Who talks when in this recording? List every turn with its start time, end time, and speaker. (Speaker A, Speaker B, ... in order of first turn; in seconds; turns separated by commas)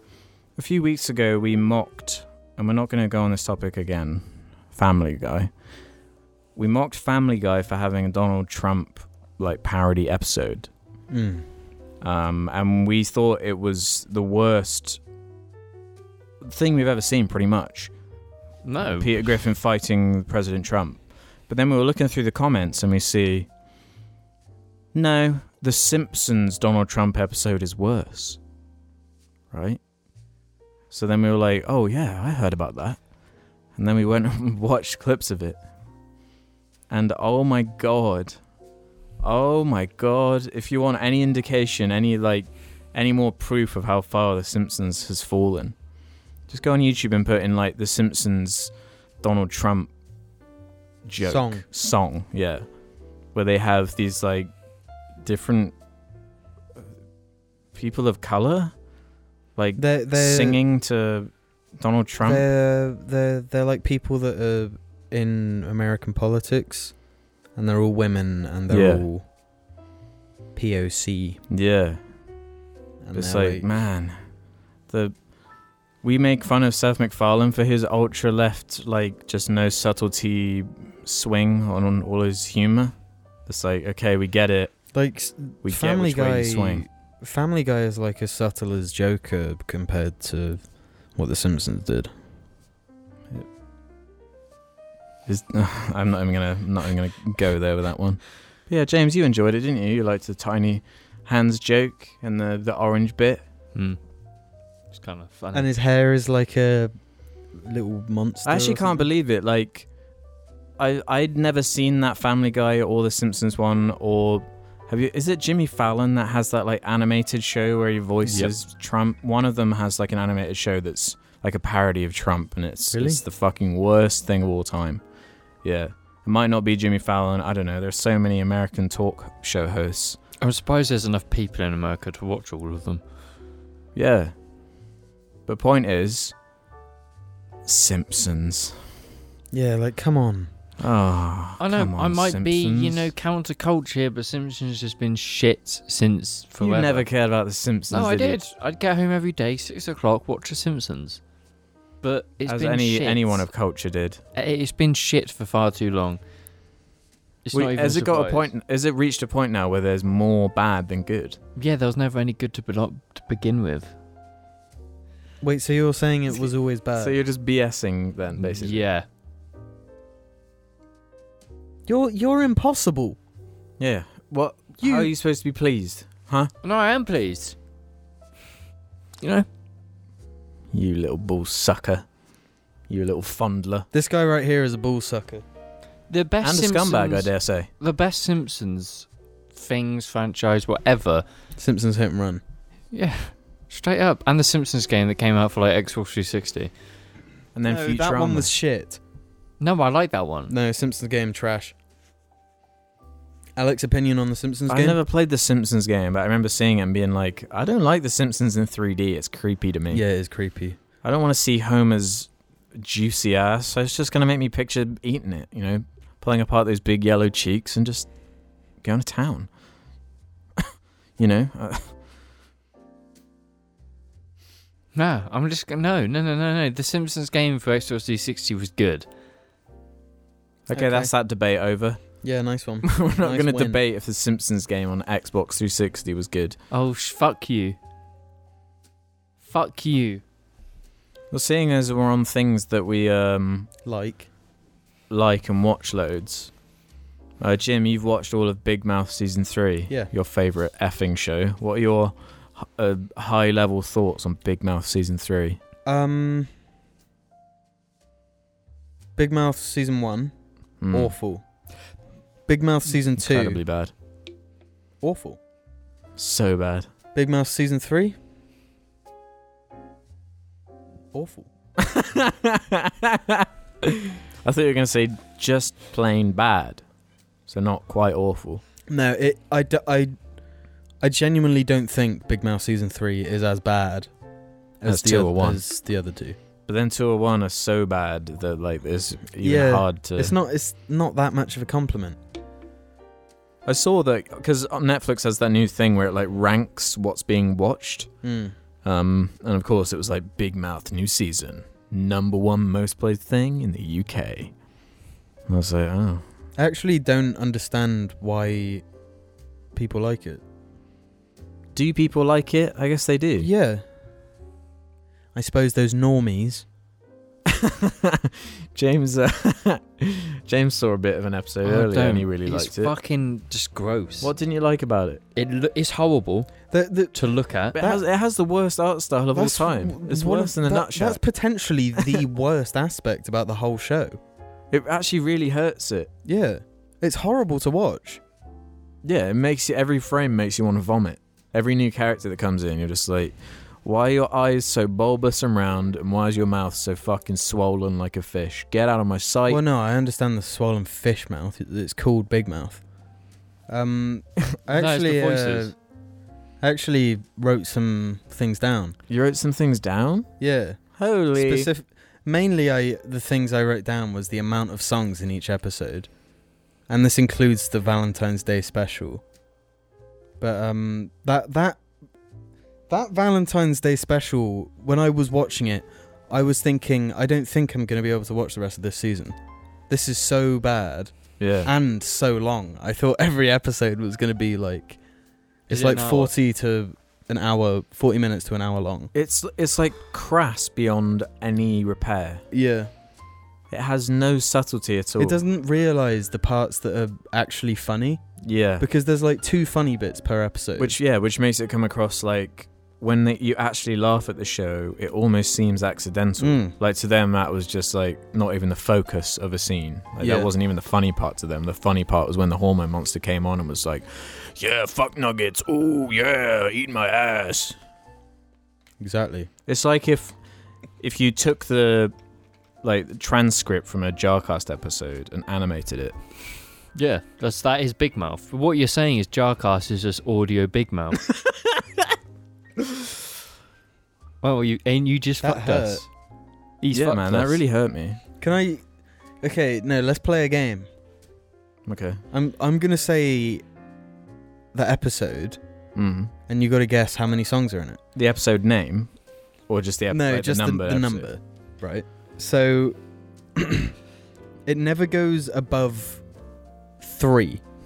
Speaker A: 0.6-5.5, Speaker A: 6.6-10.7, Speaker B: 11.1-11.4, Speaker A: 12.0-15.0, Speaker A: 16.4-17.9, Speaker C: 18.6-19.1, Speaker A: 18.9-23.5, Speaker A: 24.9-28.4, Speaker A: 29.5-29.8, Speaker A: 30.9-33.0, Speaker A: 33.8-35.6, Speaker A: 36.9-38.4, Speaker A: 39.2-45.8, Speaker A: 46.5-49.9, Speaker A: 51.0-52.7, Speaker B: 51.2-51.6, Speaker A: 53.3-54.5, Speaker A: 55.2-55.8, Speaker A: 57.7-58.7, Speaker A: 59.6-62.5, Speaker B: 59.8-60.6, Speaker B: 62.2-67.0, Speaker B: 67.6-69.2, Speaker A: 68.7-69.0, Speaker B: 70.5-71.4, Speaker A: 71.5-72.0, Speaker B: 73.0-73.7, Speaker A: 73.1-74.2, Speaker A: 74.9-75.2, Speaker A: 76.0-83.0, Speaker A: 83.5-84.7, Speaker B: 84.9-90.6, Speaker A: 85.6-86.8, Speaker B: 91.2-92.1, Speaker A: 95.3-103.4, Speaker C: 104.9-105.7, Speaker B: 105.5-106.9, Speaker B: 107.6-109.1, Speaker A: 108.5-109.9, Speaker A: 110.8-125.0, Speaker C: 118.3-118.5, Speaker B: 122.9-123.2, Speaker A: 125.6-130.2, Speaker C: 130.4-133.0, Speaker A: 133.9-134.3, Speaker A: 135.5-136.3, Speaker A: 137.7-138.8, Speaker B: 139.5-140.5, Speaker A: 140.8-143.1, Speaker C: 141.6-147.1, Speaker A: 146.6-148.4, Speaker C: 147.9-151.2, Speaker C: 152.0-153.5, Speaker A: 152.5-154.2, Speaker C: 154.3-156.2, Speaker C: 157.4-158.5, Speaker A: 157.5-161.4, Speaker C: 161.6-163.9, Speaker B: 165.4-167.2, Speaker A: 166.9-168.8, Speaker C: 168.4-169.1, Speaker B: 171.9-173.2, Speaker A: 173.8-176.5, Speaker B: 174.8-175.1, Speaker C: 176.6-177.6, Speaker C: 179.2-179.5, Speaker A: 180.7-182.1, Speaker A: 182.9-183.9, Speaker B: 183.9-185.4, Speaker C: 186.1-191.2, Speaker A: 186.4-187.7, Speaker B: 191.6-192.4, Speaker C: 192.9-196.7, Speaker A: 197.6-198.5, Speaker B: 197.7-199.0, Speaker C: 199.6-200.5, Speaker B: 200.5-201.7, Speaker B: 203.6-205.0, Speaker A: 204.7-210.0, Speaker B: 209.9-210.8, Speaker A: 211.0-218.1, Speaker A: 218.8-219.5, Speaker A: 220.6-221.9, Speaker C: 224.9-229.1, Speaker A: 230.7-232.0, Speaker B: 230.7-231.1, Speaker B: 232.2-233.8, Speaker A: 232.8-236.6, Speaker C: 236.7-237.8, Speaker C: 239.4-240.2, Speaker A: 241.3-243.7, Speaker B: 243.8-244.3, Speaker A: 245.1-246.5, Speaker A: 247.4-255.6, Speaker B: 255.9-256.5, Speaker B: 259.2-260.3, Speaker A: 260.8-261.1, Speaker B: 260.9-261.4, Speaker B: 262.5-263.6, Speaker A: 263.2-263.9, Speaker B: 265.0-265.4, Speaker A: 266.2-266.9, Speaker B: 267.1-268.2, Speaker B: 271.1-271.5, Speaker A: 271.8-276.8, Speaker A: 277.5-278.6, Speaker B: 278.9-280.1, Speaker B: 281.0-284.1, Speaker B: 284.8-286.4, Speaker A: 284.9-285.6, Speaker A: 286.7-290.3, Speaker B: 289.4-292.2, Speaker A: 293.7-298.1, Speaker B: 298.2-298.5, Speaker A: 298.8-304.5, Speaker A: 305.5-306.2, Speaker B: 306.6-308.8, Speaker B: 309.7-310.4, Speaker A: 311.7-313.5, Speaker B: 313.4-313.8, Speaker B: 315.4-316.6, Speaker A: 317.5-322.9, Speaker C: 321.6-324.3, Speaker A: 324.2-325.2, Speaker C: 325.4-326.5, Speaker B: 326.7-327.1, Speaker C: 327.1-327.8, Speaker A: 327.7-331.2, Speaker B: 327.8-328.0, Speaker B: 329.3-334.2, Speaker A: 332.0-332.2, Speaker A: 334.7-336.1, Speaker B: 336.2-338.2, Speaker A: 339.0-349.6, Speaker B: 349.5-352.8, Speaker B: 353.7-355.8, Speaker C: 354.7-355.7, Speaker B: 356.6-359.0, Speaker A: 359.1-360.3, Speaker B: 360.4-366.1, Speaker A: 361.0-361.7, Speaker B: 366.9-369.2, Speaker B: 370.4-371.8, Speaker B: 372.9-379.4, Speaker B: 379.9-385.0, Speaker A: 381.4-381.7, Speaker B: 385.7-389.1, Speaker C: 385.7-386.3, Speaker A: 389.1-392.4, Speaker B: 392.5-392.9, Speaker A: 393.7-395.4, Speaker B: 395.2-398.2, Speaker A: 398.4-398.9, Speaker B: 398.8-401.0, Speaker A: 400.8-417.8, Speaker B: 406.4-406.8, Speaker B: 410.2-410.5, Speaker B: 419.0-419.5, Speaker A: 419.7-420.4, Speaker A: 421.0-422.1, Speaker A: 422.8-426.1, Speaker C: 427.0-431.2, Speaker C: 434.4-436.1, Speaker B: 435.4-436.1, Speaker C: 436.8-437.6, Speaker A: 436.9-438.2, Speaker B: 438.4-438.9, Speaker B: 439.4-440.9, Speaker A: 441.9-442.2, Speaker B: 442.3-443.6, Speaker B: 444.7-445.6, Speaker A: 446.0-446.3, Speaker B: 446.5-448.0, Speaker A: 448.1-449.1, Speaker A: 449.7-451.3, Speaker B: 450.1-453.0, Speaker B: 453.6-453.9, Speaker B: 454.7-456.2, Speaker B: 457.0-457.6